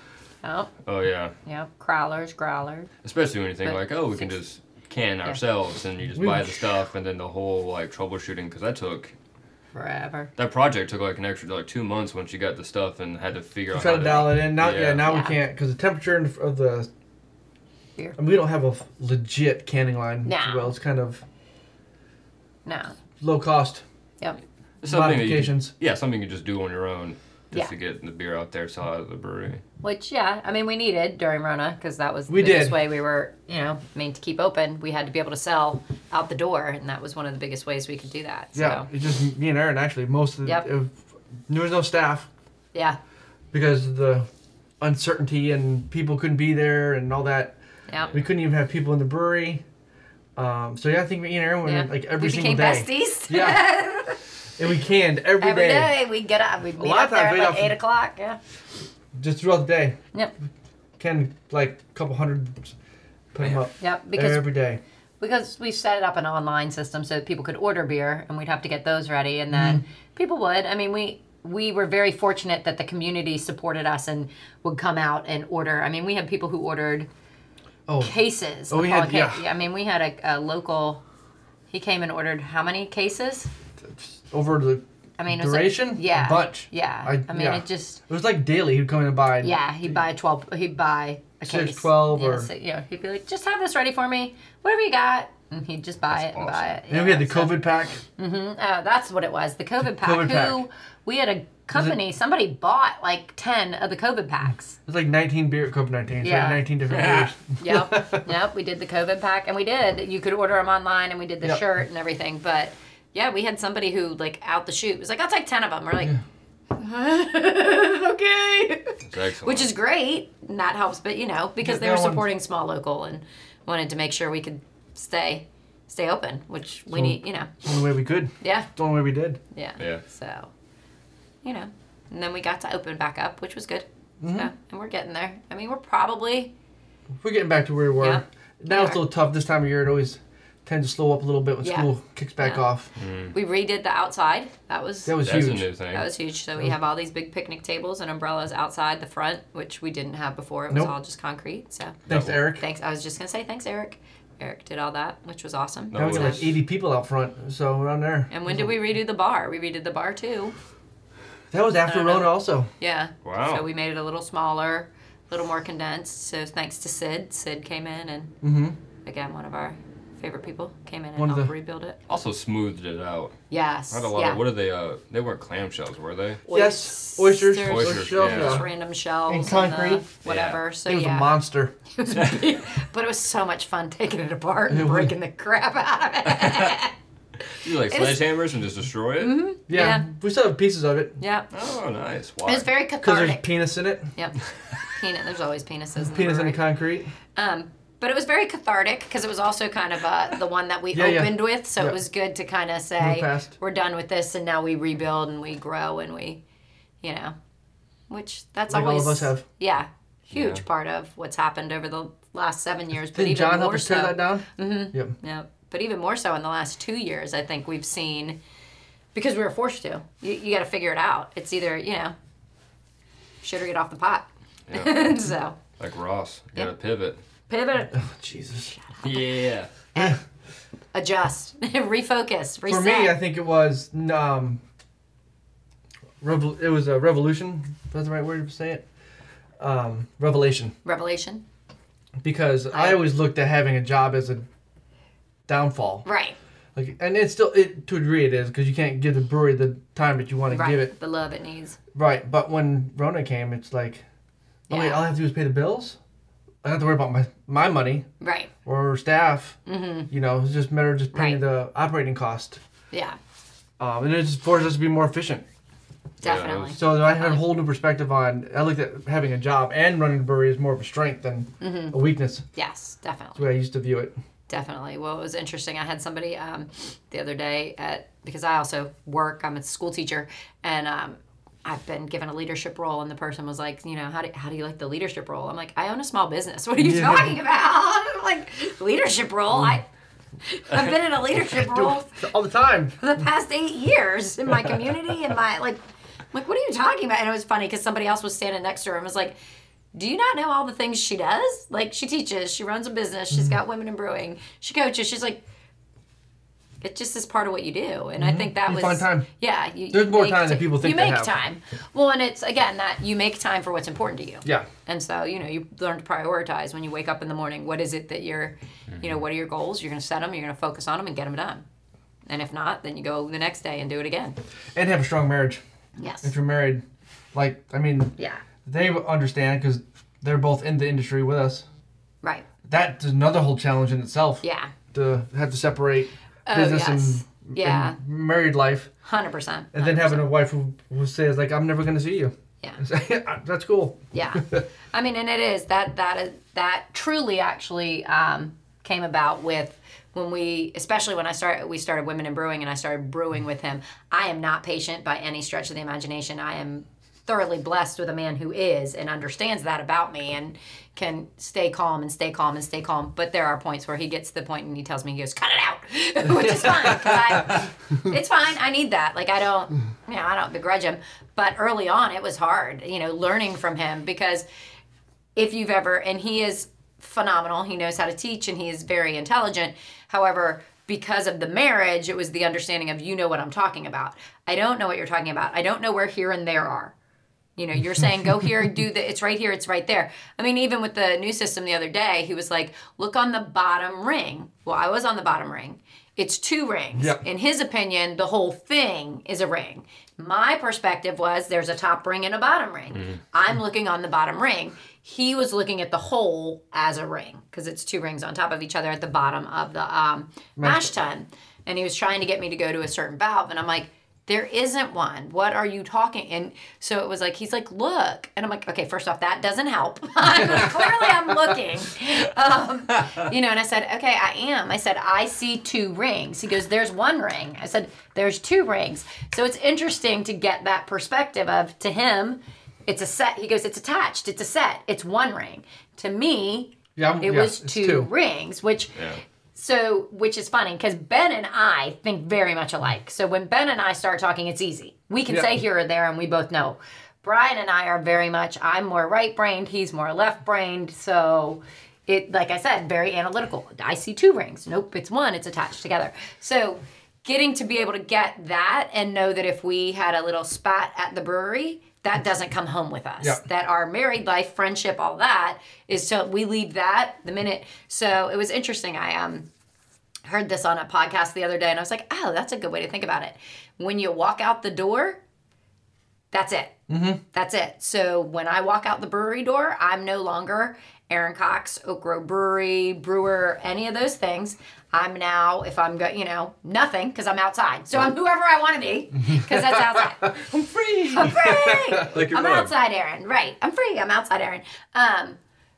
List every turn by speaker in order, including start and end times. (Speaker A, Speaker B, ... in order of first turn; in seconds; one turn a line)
Speaker A: 0.4-0.7
Speaker B: 0.8-1.3
Speaker A: 1.4-2.9
Speaker B: 3.0-9.1
Speaker A: 3.6-4.3
Speaker C: 6.2-6.6
Speaker A: 9.7-10.3
Speaker B: 10.4-15.1
Speaker C: 13.7-16.9
Speaker A: 15.0-15.3
Speaker C: 18.2-21.2
Speaker A: 20.2-20.7
Speaker A: 22.6-22.9
Speaker C: 23.2-23.8
Speaker B: 24.8-29.6
Speaker C: 24.9-25.7
Speaker A: 29.8-38.9
Speaker C: 32.3-32.8
Speaker C: 38.5-42.3
Speaker C: 43.5-44.3
Speaker C: 44.8-47.6
Speaker A: 47.9-48.1
Speaker C: 48.1-49.6
Speaker C: 50.4-53.7
Speaker A: 51.6-54.2
Speaker C: 54.6-55.9
Speaker A: 55.4-58.4
Speaker C: 56.8-57.8
Speaker C: 59.2-60.0
Speaker C: 61.0-62.7
Speaker C: 63.3-64.8
Speaker A: 63.8-64.5
Speaker A: 65.2-77.1
Speaker C: 69.5-69.8
Speaker C: 77.9-78.1
Speaker A: 78.0-81.0
Speaker C: 78.7-79.4
Speaker A: 81.7-83.5
Speaker C: 83.8-89.5
Speaker A: 85.2-88.0
Speaker A: 89.4-97.6
Speaker C: 91.5-92.5
Speaker B: 96.1-96.7
Speaker C: 96.9-98.0
Speaker A: 98.2-104.8
Speaker C: 99.9-100.6
Speaker C: 104.9-108.3
Speaker A: 106.2-116.1
Speaker B: 106.9-107.3
Speaker A: 116.7-127.5
Speaker B: 119.0-119.7
Speaker C: 121.6-122.2
Speaker C: 126.9-129.4
Speaker A: 128.4-128.7
Speaker A: 129.5-130.5
Speaker A: 131.4-136.5
Speaker C: 134.2-134.5
Speaker C: 137.2-142.9
Speaker A: 138.0-139.0
Speaker A: 141.6-142.6
Speaker B: 143.0-143.3
Speaker A: 143.3-145.2
Speaker C: 145.1-145.7
Speaker B: 145.2-146.1
Speaker A: 145.9-152.0
Speaker C: 152.1-152.6
Speaker B: 152.1-152.4
Speaker A: 152.5-156.4
Speaker B: 155.9-156.6
Speaker C: 155.9-158.7
Speaker A: 158.3-160.5
Speaker C: 161.5-162.7
Speaker A: 161.8-168.3
Speaker B: 163.2-163.6
Speaker C: 168.4-168.8
Speaker A: 169.0-172.0
Speaker C: 171.2-171.5
Speaker B: 172.1-173.4
Speaker A: 173.5-174.4
Speaker B: 173.9-176.4
Speaker A: 176.4-181.3
Speaker C: 176.5-178.7
Speaker B: 177.6-178.7
Speaker C: 179.3-180.1
Speaker B: 180.2-180.6
Speaker C: 180.8-181.7
Speaker A: 181.9-186.9
Speaker C: 184.7-185.1
Speaker B: 186.4-186.7
Speaker B: 187.6-189.4
Speaker A: 187.8-188.2
Speaker A: 189.2-190.1
Speaker C: 189.7-191.2
Speaker A: 191.2-191.5
Speaker B: 191.5-192.7
Speaker A: 192.4-193.5
Speaker C: 193.0-194.1
Speaker A: 194.1-196.6
Speaker C: 196.0-197.1
Speaker A: 197.3-206.4
Speaker C: 200.9-202.0
Speaker C: 203.0-203.5
Speaker A: 207.0-207.3
Speaker A: 208.1-218.4
Speaker C: 208.7-209.4
Speaker B: 210.3-210.6
Speaker C: 213.1-215.1
Speaker A: 219.1-222.1
Speaker A: 223.4-225.6
Speaker B: 224.7-225.0
Speaker B: 225.8-227.2
Speaker A: 227.5-228.0
Speaker C: 227.9-228.7
Speaker A: 228.7-229.3
Speaker B: 229.0-229.7
Speaker A: 229.9-230.2
Speaker A: 230.9-233.1
Speaker C: 232.7-234.6
Speaker C: 236.2-238.8
Speaker C: 239.6-240.7
Speaker A: 240.8-241.4
Speaker C: 242.2-244.4
Speaker A: 242.7-243.0
Speaker C: 245.5-246.1
Speaker A: 246.0-246.4
Speaker C: 246.7-250.9
Speaker A: 250.5-251.8
Speaker C: 251.9-254.0
Speaker A: 254.7-255.1
Speaker C: 254.7-256.0
Speaker C: 256.6-258.1
Speaker A: 258.2-258.5
Speaker C: 258.6-259.6
Speaker A: 259.6-260.1
Speaker C: 260.1-262.6
Speaker A: 261.1-261.4
Speaker A: 262.9-263.2
Speaker C: 263.8-265.4
Speaker B: 266.2-266.7
Speaker A: 266.2-267.4
Speaker C: 266.7-272.4
Speaker A: 271.6-272.0
Speaker A: 272.5-273.4
Speaker C: 273.4-274.1
Speaker A: 274.5-289.8
Speaker C: 286.8-287.4
Speaker A: 290.4-292.2
Speaker C: 291.4-293.0
Speaker A: 293.0-295.8
Speaker A: 296.3-299.3
Speaker A: 299.9-305.4
Speaker A: 306.8-321.6
Speaker C: 308.2-309.3
Speaker C: 309.9-311.3
Speaker A: 322.3-324.4
Speaker C: 324.7-325.6
Speaker A: 326.0-326.3
Speaker C: 326.2-326.8
Speaker C: 327.3-331.6
Speaker C: 332.7-338.9
Speaker A: 334.4-334.7
Speaker A: 336.5-338.0
Speaker A: 339.0-340.2
Speaker C: 339.7-344.6
Speaker A: 344.1-374.4
Speaker A: 375.4-386.9
Speaker A: 387.6-438.9
Speaker C: 396.9-397.2
Speaker C: 410.6-410.9
Speaker C: 420.4-420.9
Speaker C: 436.9-438.1
Speaker A: 439.5-469.5
Speaker C: 445.3-445.6
Speaker A: 470.2-475.2
Speaker A: 476.3-476.8
Speaker C: 476.9-477.2
Speaker A: 477.3-495.4
Speaker C: 490.2-492.1
Speaker B: 491.9-492.7